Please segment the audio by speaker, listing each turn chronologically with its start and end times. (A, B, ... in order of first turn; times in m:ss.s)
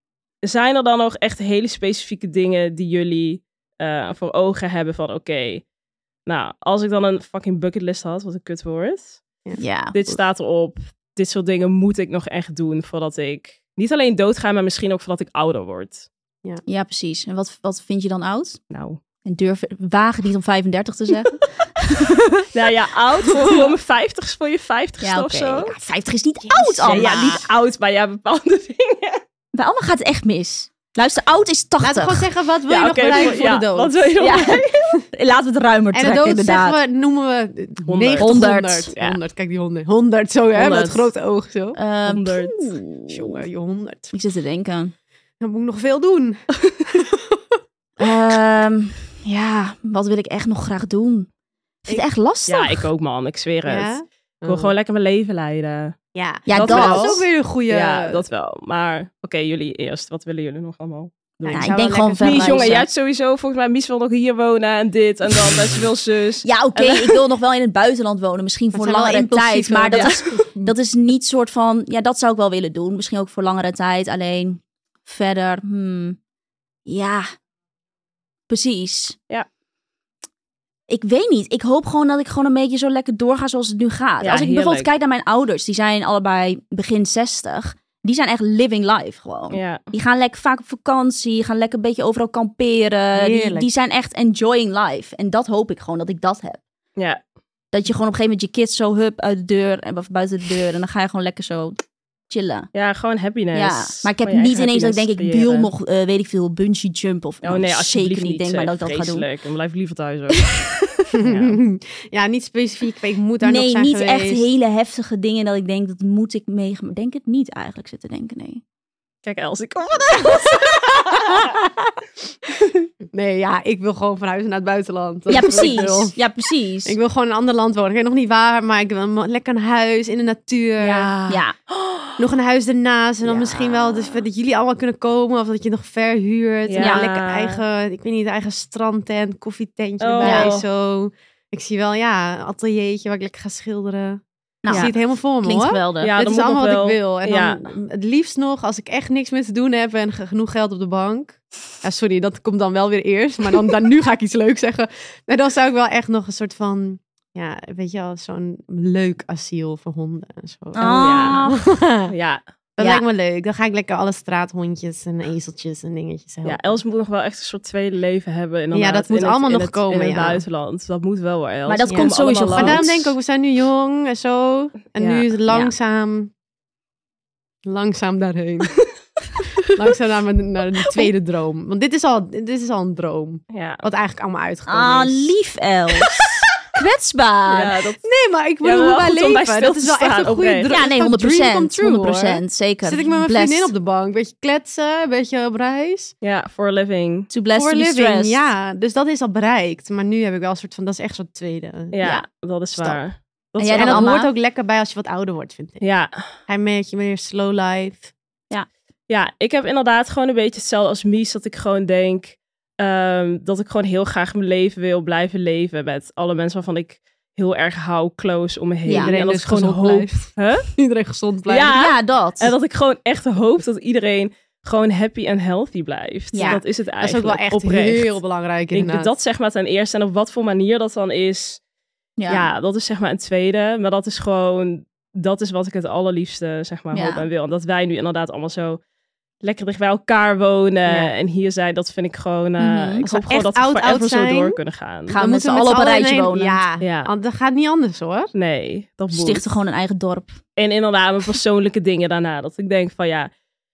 0:00.4-0:05.6 A
0:06.2-0:09.2 A
0:09.6-0:10.0 B
0:09.9-0:16.1 A
0:16.6-0:18.6 B
0:18.7-0:19.0 A
0:19.2-0:22.4 B
0:22.5-0:25.7 A
0:25.0-0:27.4 B
0:26.4-0:27.4 C
0:26.8-0:29.2 A
0:29.5-0:32.3 B
0:31.8-0:34.5 C
0:32.7-0:34.7 A
0:34.2-0:36.8 B
0:35.9-0:41.8 C
0:37.9-0:39.2 A
0:38.2-0:38.9 B
0:40.5-0:41.1 A
0:41.8-0:43.4 B
0:42.0-0:42.8 A
0:43.1-0:44.1 C
0:44.1-0:44.9 B
0:45.4-0:47.4 C
0:48.0-0:51.3 B
0:51.8-0:52.8 B
0:52.5-0:56.0 A
0:53.6-0:54.7 C
0:56.1-0:58.2 C
0:56.5-0:57.2 B
0:56.5-1:07.2 A
1:01.4-1:02.8 C
1:01.5-1:02.8 B
1:06.4-1:16.2 B
1:08.7-1:10.7 C
1:09.9-1:10.3 A
1:16.8-1:17.3 B
1:18.5-1:19.2 B
1:20.9-1:36.6 B
1:24.2-1:24.9 A
1:29.5-1:29.8 A
1:33.1-1:33.7 C
1:37.0-1:37.2 A
1:37.7-1:42.7 B
1:42.7-1:45.7 A
1:43.5-1:49.2 B
1:47.4-1:50.6 A
1:51.1-1:51.6 A
1:51.1-1:54.4 C
1:53.4-1:58.6 B
1:59.2-2:01.5 A
2:01.2-2:01.9 C
2:03.1-2:06.2 C
2:05.3-2:06.9 B
2:05.4-2:05.8 A
2:06.8-2:11.2 C
2:10.8-2:12.2 A
2:11.2-2:11.5 B
2:12.2-2:42.1 C
2:13.2-2:13.9 B
2:16.7-2:17.6 A
2:16.8-2:17.0 B
2:20.0-2:20.6 A
2:20.2-2:20.5 B
2:24.6-2:26.1 B
2:26.0-2:27.6 A
2:40.7-2:41.6 B
2:40.8-2:42.4 A
2:42.8-2:46.8 C
2:42.8-2:43.0 B
2:46.4-2:53.1 A
2:48.7-2:50.4 C
2:51.6-2:52.9 B
2:51.9-2:56.3 C
2:55.0-2:55.3 A
2:57.6-2:58.8 C
2:59.6-3:05.3 C
3:03.5-3:03.8 A
3:04.7-3:06.1 B
3:06.7-3:07.7 B
3:07.5-3:08.0 A
3:08.0-3:16.1 C
3:08.6-3:10.7 A
3:10.7-3:13.7 B
3:16.2-3:17.3 A
3:17.3-3:18.5 B
3:17.5-3:22.0 C
3:21.9-3:24.1 A
3:23.6-3:24.3 B
3:23.7-3:25.8 C
3:25.8-3:26.2 A
3:26.5-3:28.1 C
3:29.1-3:40.7 A
3:38.8-3:39.1 B
3:38.9-3:41.7 C
3:41.5-3:48.2 A
3:41.7-3:42.5 B
3:46.3-3:46.6 B
3:46.4-3:49.1 C
3:48.7-3:51.6 A
3:52.2-3:52.5 B
3:52.3-3:58.8 A
3:56.9-3:57.2 B
3:59.4-4:05.2 A
4:00.8-4:01.1 C
4:02.6-4:03.0 B
4:03.0-4:04.6 C
4:05.1-4:06.6 B
4:05.2-4:08.3 C
4:06.8-4:07.1 A
4:08.3-4:09.4 A
4:09.1-4:10.4 B
4:10.6-4:13.3 A